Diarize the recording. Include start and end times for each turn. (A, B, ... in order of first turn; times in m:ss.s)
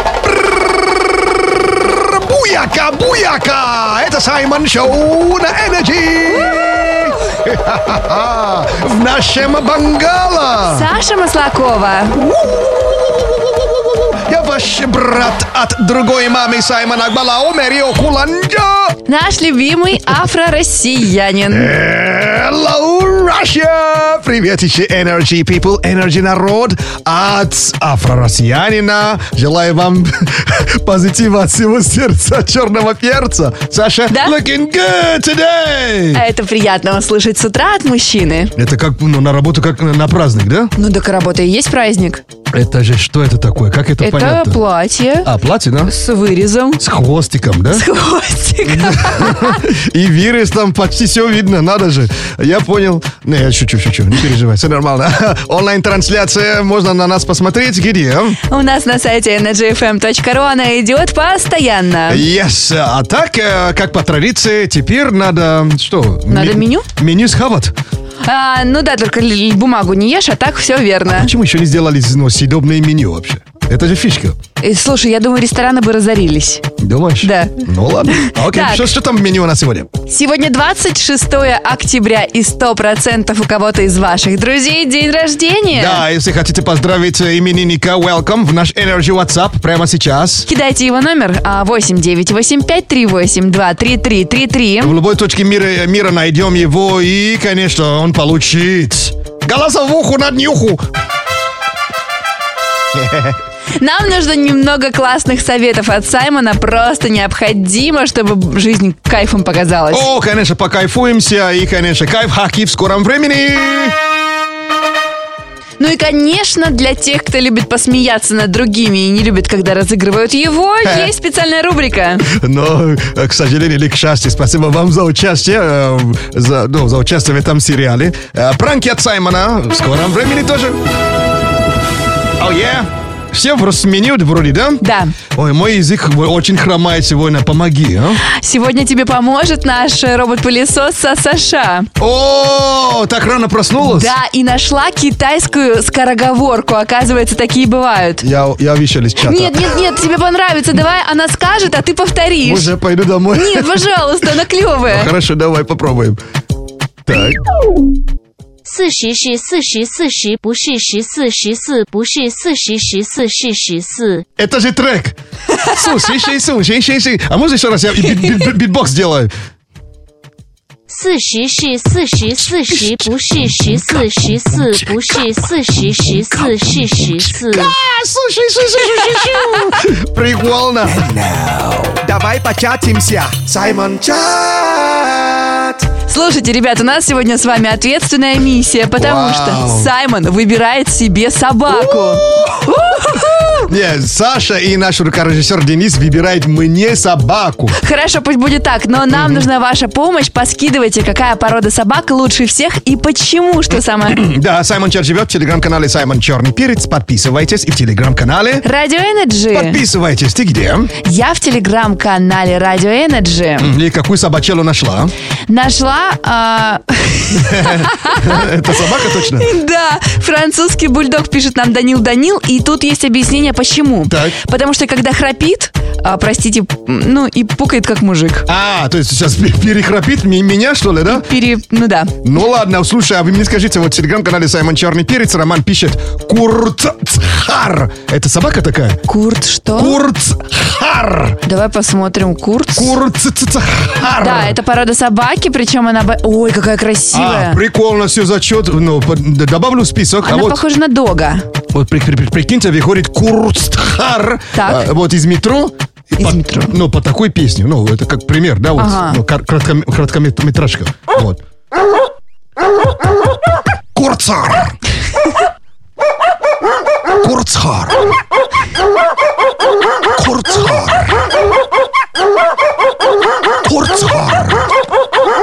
0:00.4-0:00.7 A
0:01.8-0:10.9 A
0:10.7-0:12.2 B
0:12.1-0:19.0 A
0:19.1-0:21.7 B
0:21.5-0:36.2 A
0:36.1-0:38.5 B
0:38.6-0:40.7 A
0:40.8-0:42.2 B
0:42.5-0:44.6 A
0:44.0-0:45.3 B
0:45.2-0:45.9 A
0:45.8-0:46.8 B
0:46.8-0:47.9 A
0:47.7-0:49.6 B
0:48.6-0:58.4 A
0:58.5-1:02.2 B
1:02.1-1:07.8 A
1:06.3-1:06.9 B
1:08.2-1:11.3 B
1:11.1-1:14.4 A
1:14.6-1:16.6 B
1:16.8-1:19.9 A
1:17.2-1:17.5 B
1:18.1-1:18.9 B
1:20.1-1:26.0 B
1:25.7-1:30.5 A
1:30.5-1:35.0 B
1:34.8-1:40.9 A
1:43.0-1:43.4 A
1:43.8-1:50.1 B
1:49.9-1:54.0 A
1:55.8-2:02.3 B
2:00.8-2:01.1 A
2:02.3-2:10.8 A
2:12.4-2:18.2 A
2:14.8-2:15.2 B
2:18.2-2:21.9 B
2:22.0-2:24.2 A
2:23.8-2:28.3 B
2:28.2-2:29.7 A
2:29.2-2:32.7 B
2:32.4-2:33.8 A
2:33.3-2:35.1 B
2:34.9-2:36.2 A
2:37.1-2:37.4 A
2:38.7-2:44.2 C
2:44.4-2:49.3 A
2:50.9-2:57.7 C
2:52.4-2:53.1 A
2:53.7-2:54.0 A
2:54.6-2:55.2 A
2:56.1-3:01.3 A
3:01.4-3:04.3 D
3:03.7-3:05.5 A
3:06.1-3:13.7 B
3:09.0-3:09.9 A
3:11.7-3:12.6 A
3:13.6-3:17.8 A
3:17.8-3:24.3 B
3:19.1-3:19.5 A
3:24.1-3:28.7 A
3:28.6-3:29.8 B
3:29.5-3:30.9 A
3:31.0-3:33.7 B
3:33.6-3:35.1 A
3:35.5-3:38.4 B
3:37.3-3:39.5 A
3:39.4-3:48.5 B
3:44.1-3:44.4 A
3:48.5-3:51.3 A
3:51.1-3:52.2 B
3:52.2-3:59.0 A
3:59.1-4:00.0 B
3:59.8-4:01.4 A
4:01.4-4:03.0 B
4:02.7-4:04.6 A
4:04.2-4:07.6 B
4:07.1-4:10.6 A
4:10.2-4:11.5 B
4:11.7-4:21.4 A
4:14.5-4:14.9 B
4:16.2-4:16.7 B
4:18.8-4:19.2 B
4:24.0-4:24.8 A
4:27.2-4:28.1 A
4:30.2-4:31.2 A
4:33.6-4:34.7 A